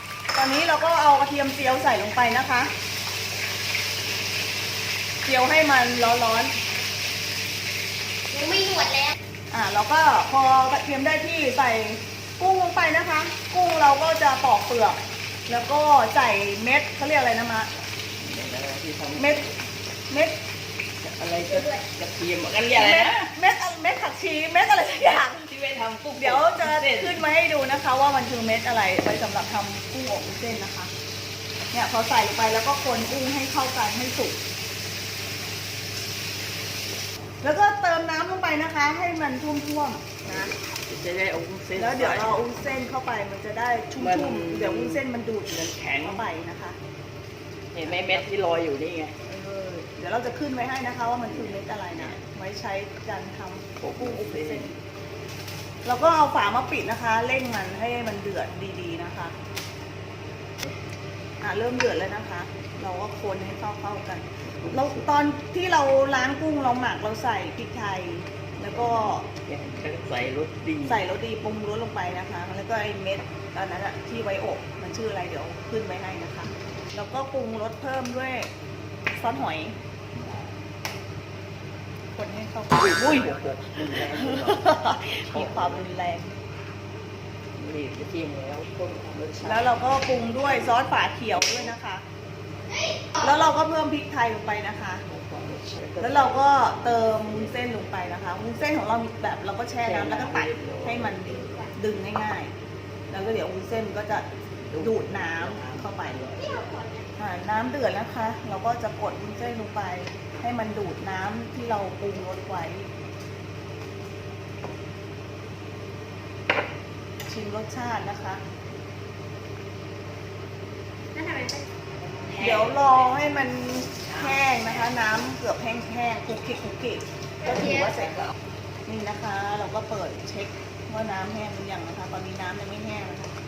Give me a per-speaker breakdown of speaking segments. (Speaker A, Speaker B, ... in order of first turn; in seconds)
Speaker A: 0.3-2.7, 5.2-6.5, 9.5-17.7, 19.2-19.5, 20.1-20.4, 22.7-25.5, 26.2-30.9, 31.7-34.4, 37.4-40.5, 41.8-46.8, 47.8-48.3, 49.3-54.8, 55.9-59.3, 61.4-69.3, 70.9-78.5, 79.1-79.8, 82.2-86.3, 89.4-92.0, 93.2-95.0, 96.0-102.5, 103.1-106.3, 107.2-112.9, 117.2-118.4, 122.3-128.3, 128.9-133.3
Speaker B: 8.3-9.2, 21.5-21.8, 106.4-107.0, 121.1-121.7, 127.5-127.8
Speaker C: 18.2-19.5, 21.0-23.3, 25.4-27.2, 40.3-42.4, 44.0-46.2, 47.7-49.1, 51.4-52.1, 53.8-54.7, 64.5-65.1, 68.7-71.0, 82.8-85.9, 87.5-89.8, 90.5-90.7, 95.1-97.6, 99.8-101.6, 104.7-106.6, 122.0-123.3, 124.0-124.9